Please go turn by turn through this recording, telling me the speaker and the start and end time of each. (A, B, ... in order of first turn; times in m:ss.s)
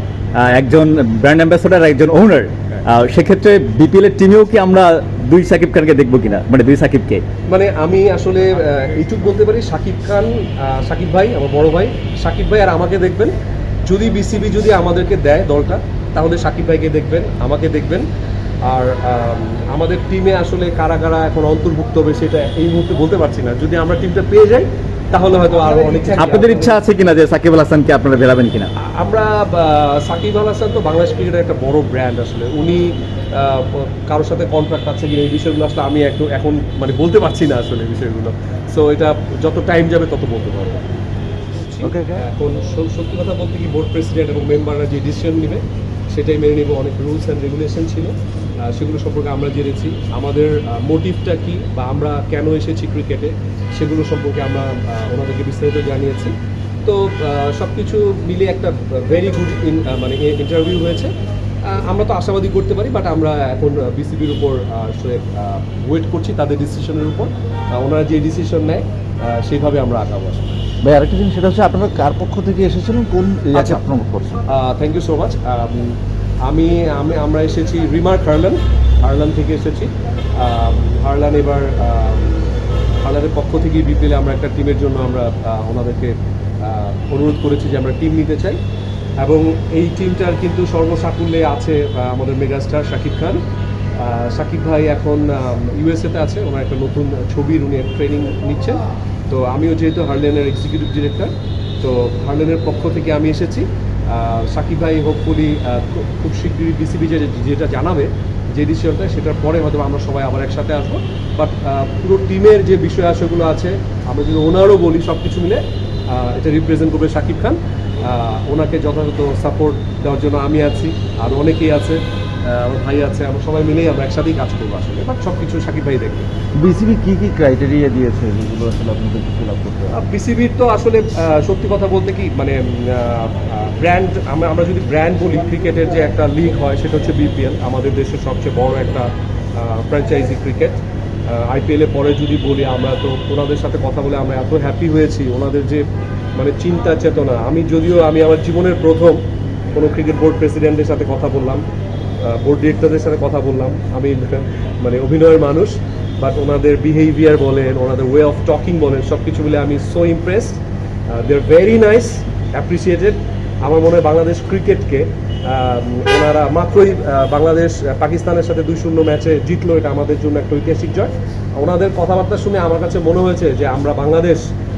0:00.4-0:07.2 A
0:07.5-0:18.0 B
0:18.6-0:26.7 B
0:26.2-0:28.7 A
0:28.8-0:40.8 B
0:41.6-0:56.3 B
0:41.8-0:42.2 C
0:56.8-1:01.1 B
1:01.6-1:10.6 B
1:10.8-1:14.4 C
1:13.5-1:13.8 B
1:14.5-1:28.6 B
1:29.2-1:33.4 B
1:34.0-2:06.3 B
2:06.6-2:10.0 C
2:09.9-2:25.8 B
2:26.4-2:29.2 B
2:29.7-2:31.6 B
2:32.2-2:54.4 B